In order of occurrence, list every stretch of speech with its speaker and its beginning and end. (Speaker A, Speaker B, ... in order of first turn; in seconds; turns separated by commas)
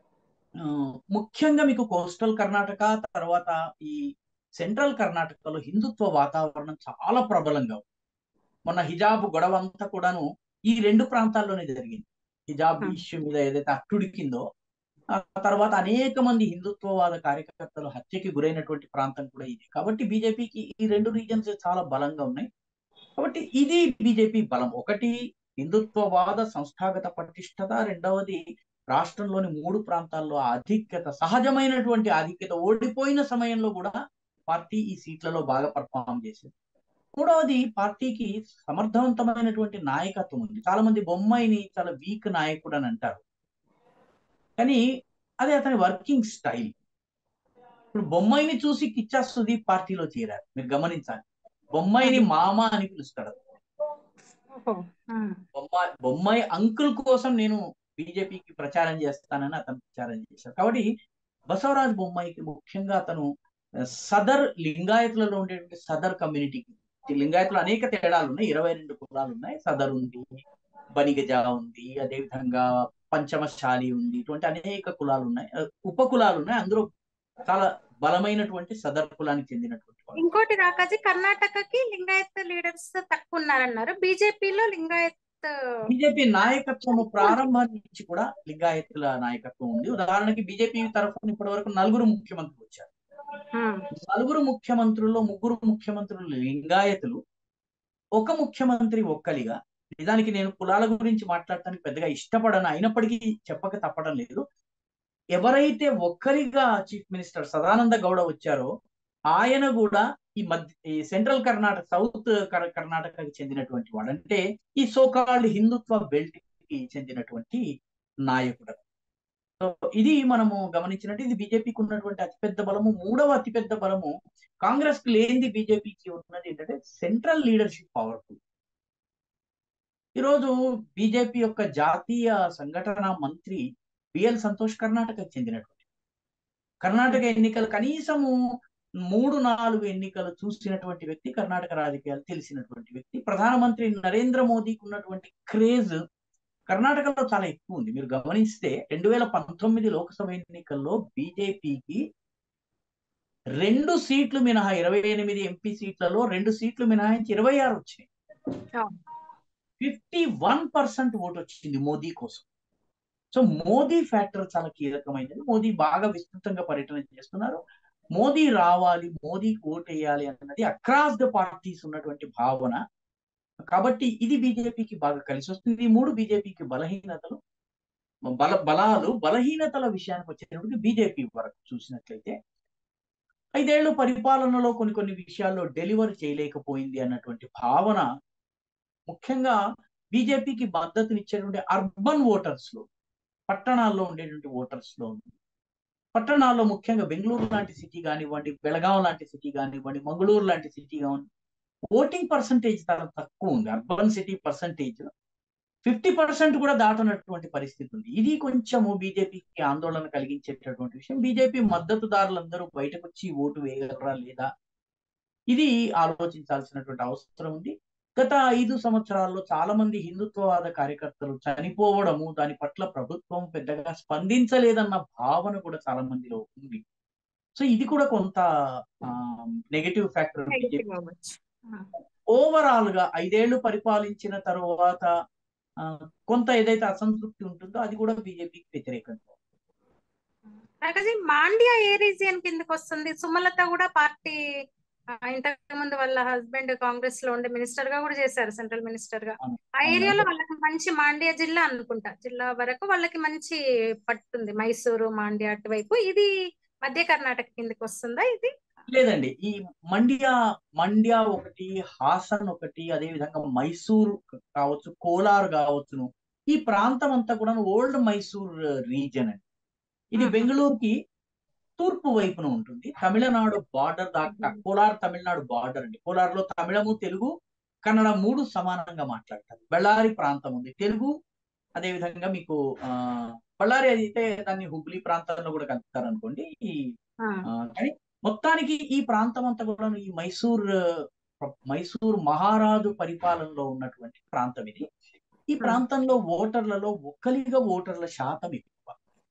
Speaker A: 0.7-4.0, Speaker A: 4.6-7.8, Speaker A: 8.7-14.4, Speaker A: 15.2-22.5, Speaker A: 23.2-28.4, Speaker A: 28.9-33.9, Speaker A: 34.5-36.5, Speaker A: 37.2-43.2, Speaker A: 45.4-46.7, Speaker A: 47.9-51.2, Speaker A: 51.8-53.4, Speaker B: 54.5-55.4, Speaker A: 55.5-60.9, Speaker A: 61.5-63.3, Speaker A: 64.0-70.2, Speaker A: 71.0-76.9, Speaker A: 77.5-80.2, Speaker B: 80.2-85.5, Speaker A: 85.9-92.9, Speaker B: 86.9-87.4, Speaker B: 93.5-93.8, Speaker A: 93.9-97.2, Speaker A: 98.2-104.4, Speaker A: 105.4-108.7, Speaker A: 109.3-117.6, Speaker A: 118.3-118.8, Speaker A: 119.6-124.1, Speaker A: 124.7-128.4, Speaker A: 130.2-133.6, Speaker A: 134.2-135.8, Speaker A: 136.8-138.3, Speaker A: 139.1-146.0, Speaker A: 146.7-152.0, Speaker A: 153.6-158.1, Speaker A: 159.8-162.5, Speaker A: 163.3-167.6, Speaker A: 168.2-172.8, Speaker A: 173.7-177.4, Speaker A: 178.4-182.3, Speaker A: 183.6-188.1, Speaker A: 189.1-189.6, Speaker A: 190.1-192.8, Speaker A: 193.5-195.3, Speaker A: 196.2-201.2, Speaker A: 201.9-205.1, Speaker A: 205.8-214.5, Speaker A: 215.5-226.8, Speaker A: 227.6-228.4, Speaker A: 229.1-230.8, Speaker B: 230.5-231.9, Speaker A: 232.3-235.1, Speaker A: 235.8-239.3, Speaker B: 240.8-244.4, Speaker B: 245.3-256.3, Speaker A: 249.4-250.2, Speaker B: 256.9-258.5, Speaker A: 258.9-269.4, Speaker A: 270.2-270.9, Speaker B: 270.2-270.5, Speaker A: 271.8-277.3, Speaker B: 274.3-274.6, Speaker A: 277.9-281.1, Speaker A: 281.8-286.4, Speaker A: 287.5-290.7, Speaker A: 291.4-294.9, Speaker A: 295.6-299.0